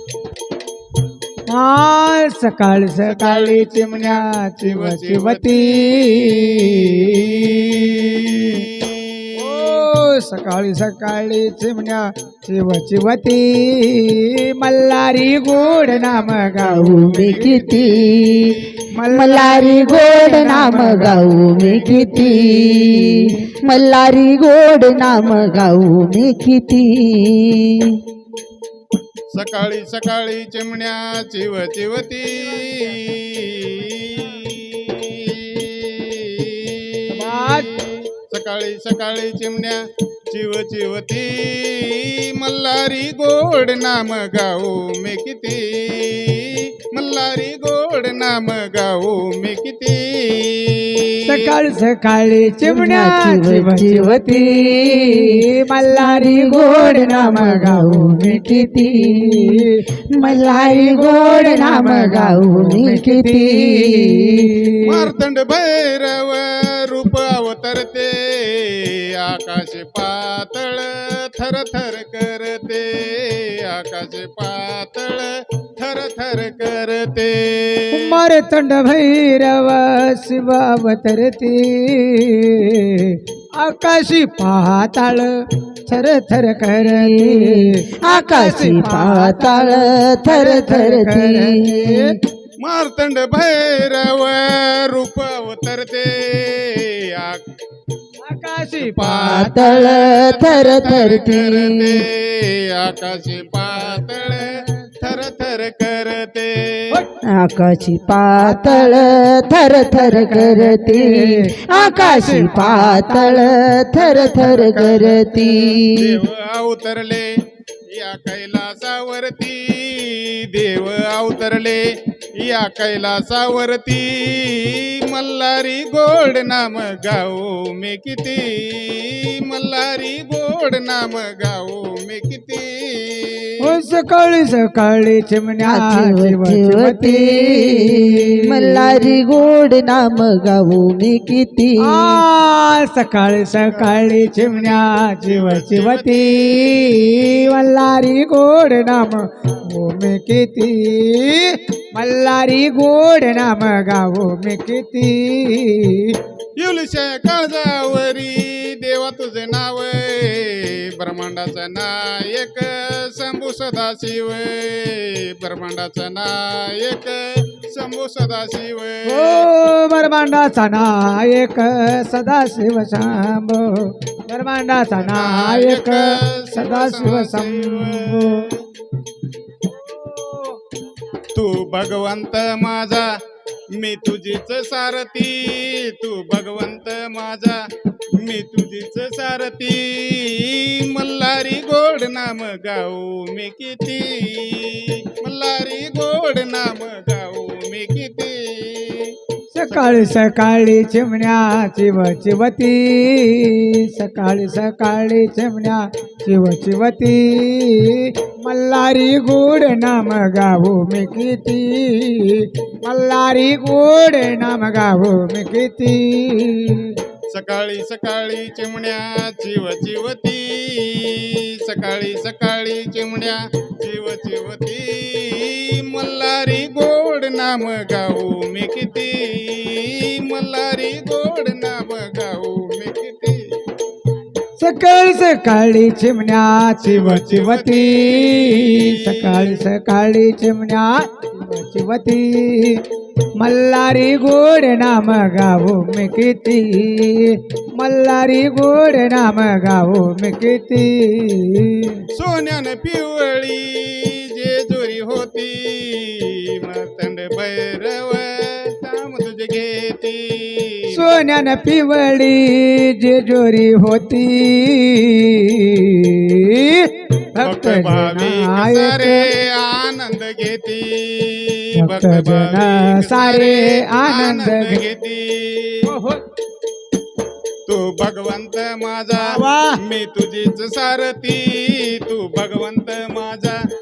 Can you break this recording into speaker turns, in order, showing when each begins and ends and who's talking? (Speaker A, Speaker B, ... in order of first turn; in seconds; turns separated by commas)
Speaker A: 1.5-7.6, Speaker B: 3.0-9.8, Speaker A: 9.3-18.0, Speaker C: 16.6-28.0, Speaker A: 18.9-23.4, Speaker B: 29.3-51.5, Speaker A: 37.1-37.7, Speaker A: 51.2-65.0, Speaker C: 52.6-64.5, Speaker B: 64.8-78.1, Speaker A: 77.9-85.3, Speaker A: 85.8-92.1, Speaker C: 86.9-92.2, Speaker B: 92.6-97.4, Speaker A: 98.2-99.7, Speaker B: 98.8-107.0, Speaker C: 99.2-102.0, Speaker C: 107.2-116.2, Speaker A: 108.4-109.1, Speaker A: 109.9-115.7, Speaker B: 115.9-117.3, Speaker B: 117.9-121.8, Speaker B: 122.4-133.7, Speaker A: 133.6-139.2, Speaker C: 135.6-142.2, Speaker A: 141.8-156.2, Speaker B: 144.6-147.6, Speaker B: 156.6-169.5, Speaker A: 169.1-178.4, Speaker B: 175.0-178.6, Speaker A: 179.9-180.5, Speaker B: 181.3-183.1, Speaker B: 183.8-187.6, Speaker B: 188.2-199.1, Speaker A: 199.5-216.9, Speaker B: 199.7-200.1, Speaker B: 217.3-233.4, Speaker A: 234.6-242.8, Speaker B: 236.8-239.6, Speaker A: 243.4-252.0, Speaker B: 252.1-261.0, Speaker A: 260.9-269.2, Speaker B: 267.4-275.9, Speaker A: 271.8-274.8, Speaker A: 275.9-276.2, Speaker B: 277.6-283.6, Speaker A: 279.2-279.7